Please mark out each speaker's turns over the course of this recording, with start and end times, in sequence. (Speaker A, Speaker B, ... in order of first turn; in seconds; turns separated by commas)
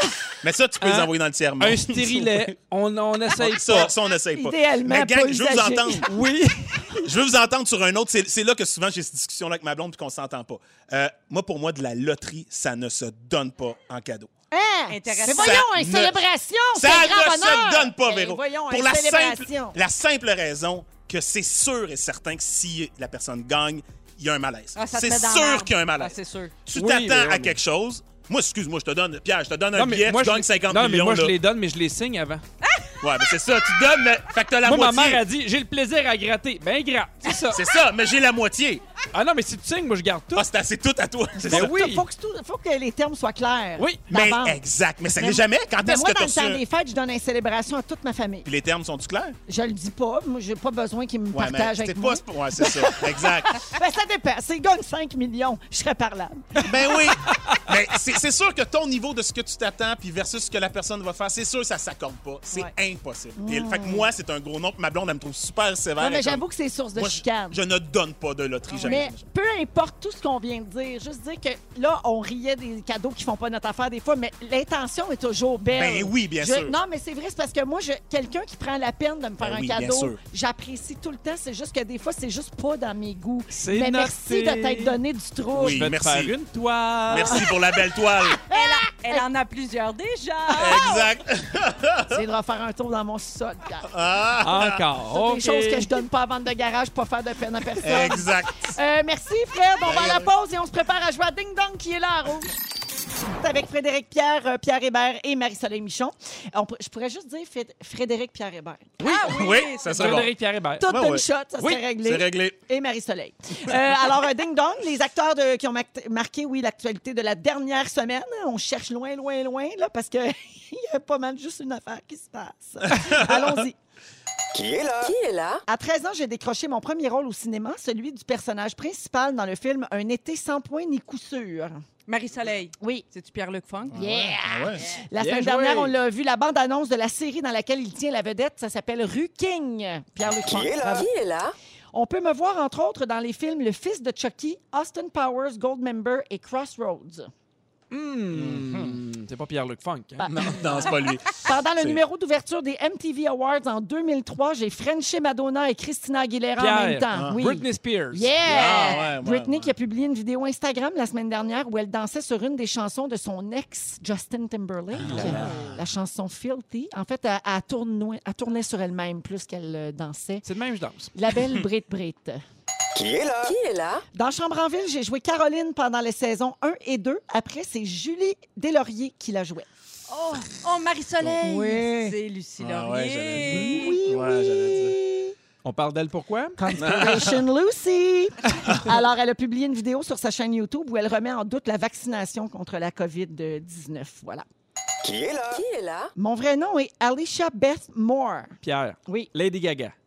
Speaker A: 0.4-2.5, Speaker B: 0.8-3.9, Speaker A: 3.4-6.1, Speaker C: 4.3-6.1, Speaker B: 6.1-7.0, Speaker A: 7.0-14.3, Speaker C: 14.5-19.8, Speaker D: 14.9-15.7, Speaker A: 15.2-16.2, Speaker A: 16.8-31.4, Speaker D: 24.8-26.6, Speaker B: 26.7-27.6, Speaker B: 29.8-32.4, Speaker D: 32.6-33.0, Speaker A: 33.0-35.2, Speaker B: 34.6-37.6, Speaker A: 37.5-38.8, Speaker B: 39.1-40.5, Speaker A: 40.3-41.8, Speaker C: 41.4-44.6, Speaker B: 41.5-42.0, Speaker B: 43.8-44.0, Speaker A: 44.1-46.6, Speaker C: 45.2-48.5, Speaker A: 48.5-49.4, Speaker C: 49.5-56.7, Speaker A: 51.3-53.6, Speaker A: 56.6-66.4, Speaker B: 57.2-57.7, Speaker C: 63.4-64.1, Speaker C: 66.0-67.6, Speaker A: 67.0-69.2, Speaker D: 68.7-69.0, Speaker C: 68.8-85.8, Speaker A: 75.7-76.8, Speaker A: 79.4-80.2, Speaker B: 83.5-85.0, Speaker A: 85.5-86.3, Speaker B: 85.5-87.5, Speaker A: 87.1-88.4, Speaker C: 88.4-89.3, Speaker D: 88.5-91.1, Speaker A: 90.5-92.2, Speaker C: 92.1-93.9, Speaker A: 93.8-94.8, Speaker B: 94.4-95.9, Speaker C: 95.1-102.6, Speaker A: 97.8-98.7, Speaker A: 99.8-100.3, Speaker C: 103.4-109.0, Speaker D: 109.0-110.2, Speaker A: 109.1-110.3, Speaker B: 109.9-110.8, Speaker C: 110.8-123.8, Speaker A: 110.9-112.6, Speaker A: 122.9-123.6, Speaker E: 124.5-125.6, Speaker C: 125.7-131.8, Speaker D: 132.1-134.0, Speaker C: 132.8-133.1, Speaker A: 133.9-134.9, Speaker C: 133.9-141.1, Speaker B: 135.2-135.9, Speaker E: 140.4-141.5, Speaker C: 141.9-147.3, Speaker B: 147.9-150.7, Speaker A: 148.3-149.0, Speaker C: 150.2-170.4, Speaker A: 150.3-152.0, Speaker B: 156.6-158.3, Speaker A: 157.1-157.4, Speaker A: 158.4-159.7, Speaker D: 158.6-159.0, Speaker A: 164.9-165.8, Speaker B: 165.0-165.8, Speaker B: 170.4-171.1, Speaker C: 171.1-172.4, Speaker E: 172.9-174.0, Speaker C: 174.1-179.7, Speaker D: 180.1-183.9, Speaker C: 181.4-182.2, Speaker A: 182.6-185.0, Speaker C: 183.4-185.3, Speaker B: 185.6-186.6, Speaker C: 186.6-194.4, Speaker A: 186.8-187.4, Speaker E: 195.0-196.1, Speaker C: 196.2-198.5, Speaker B: 198.6-199.9